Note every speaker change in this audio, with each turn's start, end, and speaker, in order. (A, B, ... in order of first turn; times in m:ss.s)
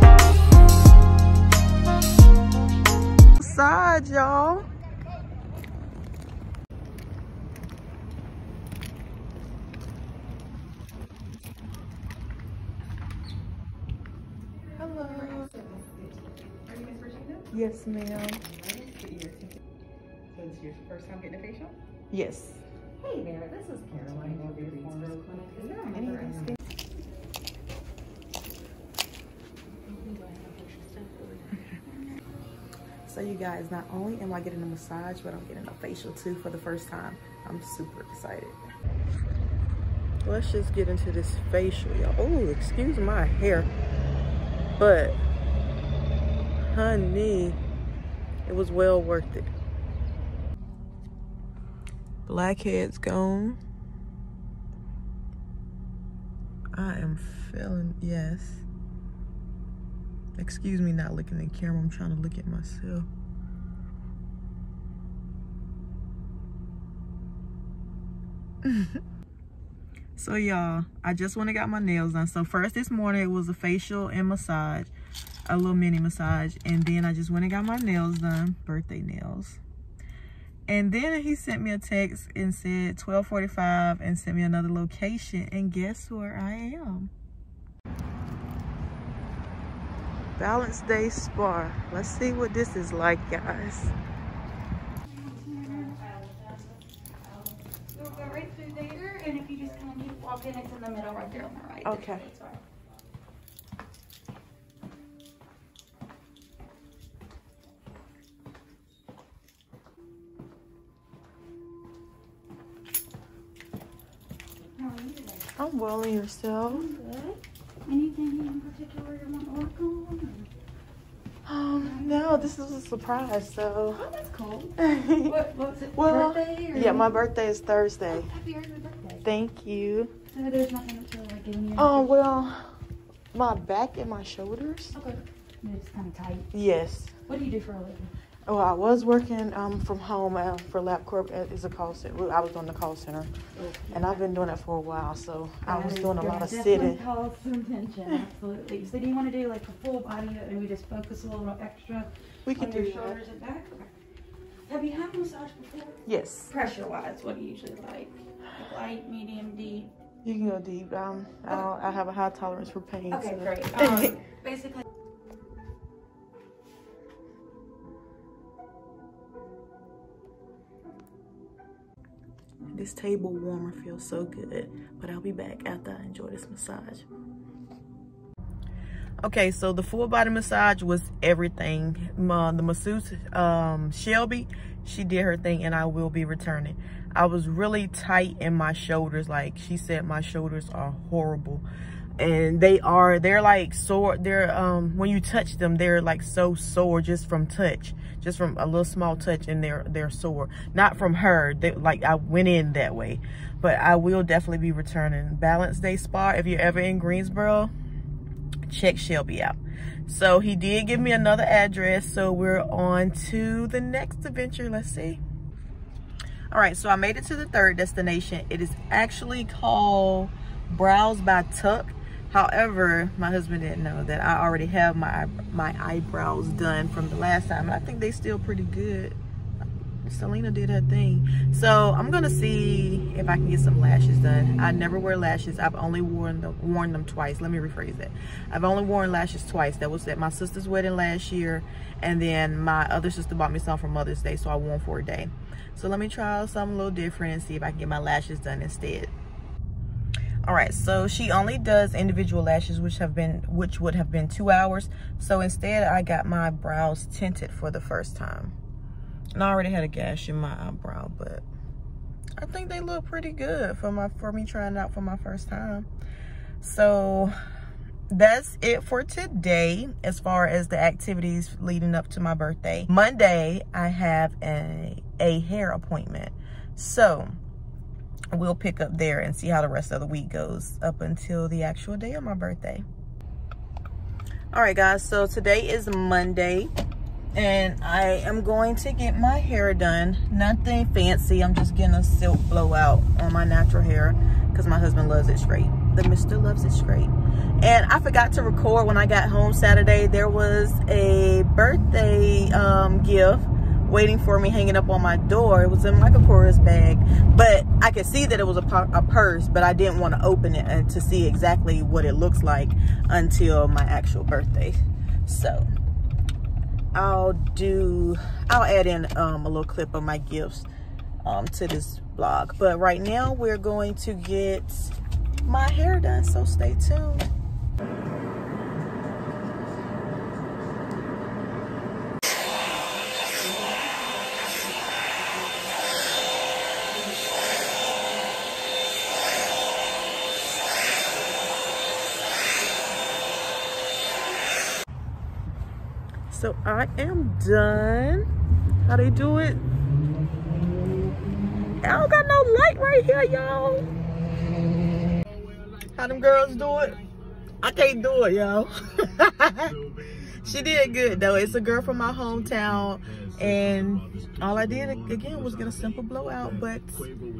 0:03.4-0:04.7 A
0:14.8-0:15.5 A
0:15.5-0:16.0 B
0:16.6-0:17.5 B
0:17.5-0:18.4 A
0:18.5-0:19.6 B
0:20.3-0:21.7 B
0:22.1-0:22.6 A
0:23.0-0:26.6 C
0:23.3-0:26.6 B
0:25.9-0:26.5 A
0:29.8-0:31.9 C
0:33.0-0:38.6 A
0:40.2-0:43.7 A
0:44.8-0:45.2 A
0:46.7-0:47.6 A
0:48.4-0:49.5 A
0:52.3-0:53.6 A
0:56.7-0:58.6 A
1:00.4-1:03.1 A
1:08.6-1:09.0 A
1:10.2-1:14.9 A
1:15.5-1:19.6 A
1:20.7-1:27.1 A
1:30.4-1:33.9 A
1:35.1-1:42.6 C
1:41.8-1:42.3 A
1:54.6-1:55.5 C
1:55.6-1:56.9 A
1:56.7-2:00.5 C
2:01.4-2:04.0 A
2:01.8-2:02.5 C
2:03.9-2:07.1 C
2:04.8-2:05.4 A
2:05.9-2:08.3 A
2:08.1-2:09.2 C
2:09.2-2:10.1 A
2:10.3-2:12.1 C
2:11.8-2:12.7 A
2:13.3-2:15.0 A
2:14.9-2:16.5 C
2:16.5-2:17.1 A
2:17.3-2:18.1 C
2:18.5-2:23.3 A
2:23.6-2:24.2 C
2:23.9-2:27.0 A
2:25.6-2:33.9 C
2:32.4-2:33.2 A
2:34.7-2:39.9 C
2:36.0-2:36.5 A
2:40.2-2:44.2 A
2:43.1-2:44.8 C
2:52.7-2:57.0 A
2:59.2-3:11.6 A
3:12.2-3:27.7 A
3:28.7-3:35.2 A
3:36.5-3:49.2 A
3:50.0-4:09.1 A
4:10.4-4:18.5 A
4:19.3-4:21.4 A
4:22.4-4:25.9 A
4:26.6-4:27.3 A
4:28.1-4:37.4 A
4:38.3-4:42.8 A
4:44.5-4:46.7 A
4:47.3-5:15.6 A
5:16.9-5:20.7 A
5:21.2-5:27.3 A
5:46.3-5:48.2 A
5:48.8-5:49.6 A
5:51.8-5:53.9 A
5:55.9-5:57.0 A
5:57.6-5:59.7 A
6:00.4-6:07.1 A